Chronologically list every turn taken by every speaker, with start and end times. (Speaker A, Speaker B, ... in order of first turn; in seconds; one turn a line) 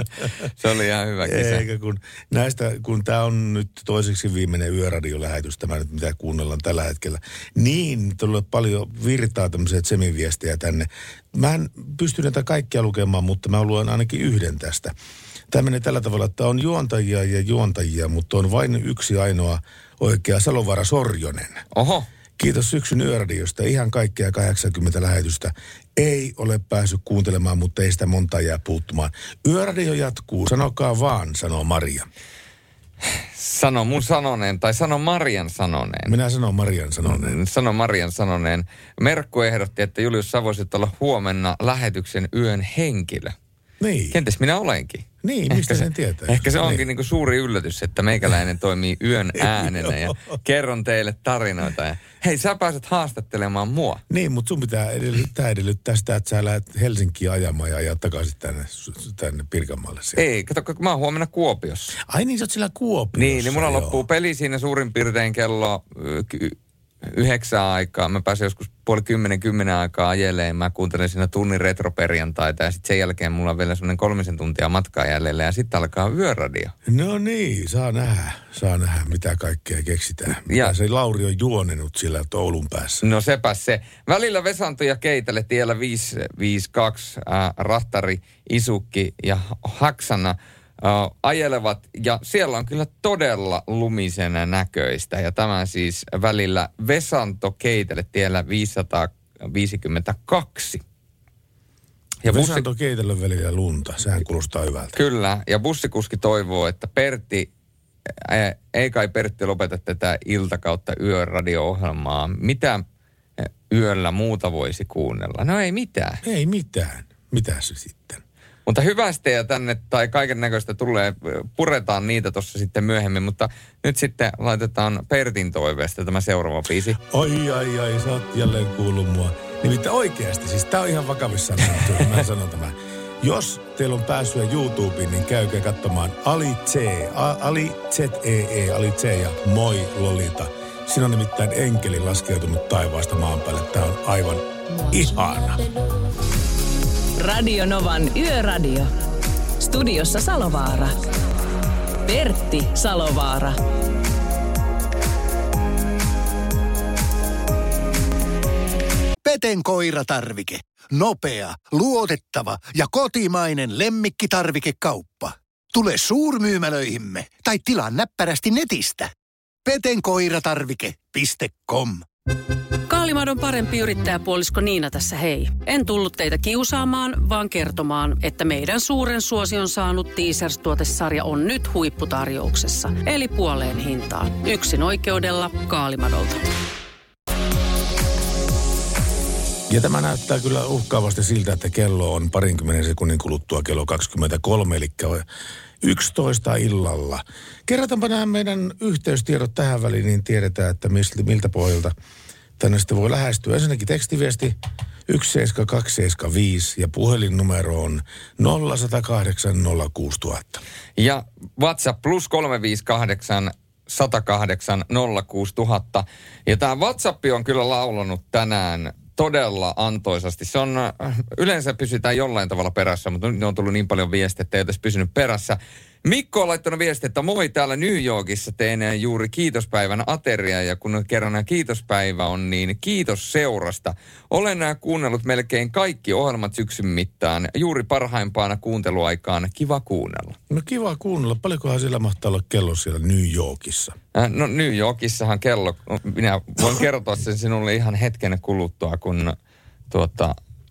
Speaker A: 0.6-1.6
Speaker B: 1.2-14.9
Speaker B: 15.5-21.6
Speaker A: 21.7-22.1
Speaker B: 22.4-32.1
Speaker A: 33.4-36.1
Speaker B: 36.1-37.4
Speaker A: 37.0-43.4
Speaker B: 43.8-44.2
Speaker A: 44.1-54.0
Speaker B: 45.2-46.9
Speaker B: 49.4-50.2
Speaker B: 54.1-60.2
Speaker A: 60.2-62.0
Speaker B: 62.0-64.0
Speaker A: 63.2-76.7
Speaker B: 76.9-83.0
Speaker A: 80.5-80.8
Speaker A: 83.0-100.8
Speaker A: 102.2-102.7
Speaker B: 102.3-105.0
Speaker A: 105.0-107.5
Speaker A: 108.1-112.8
Speaker A: 113.4-116.2
Speaker B: 116.2-118.2
Speaker A: 118.7-127.0
Speaker B: 127.1-145.6
Speaker C: 147.2-148.9
Speaker C: 149.6-150.9
Speaker C: 152.1-153.6
Speaker D: 159.2-169.1
Speaker D: 169.7-172.1
Speaker E: 172.9-186.4
Speaker B: 189.7-195.2
Speaker B: 195.8-201.9
Speaker B: 202.6-204.6
Speaker B: 205.1-210.6
Speaker A: 211.0-240.4
Speaker B: 240.5-243.9
Speaker A: 244.2-249.4
Speaker A: 249.9-250.4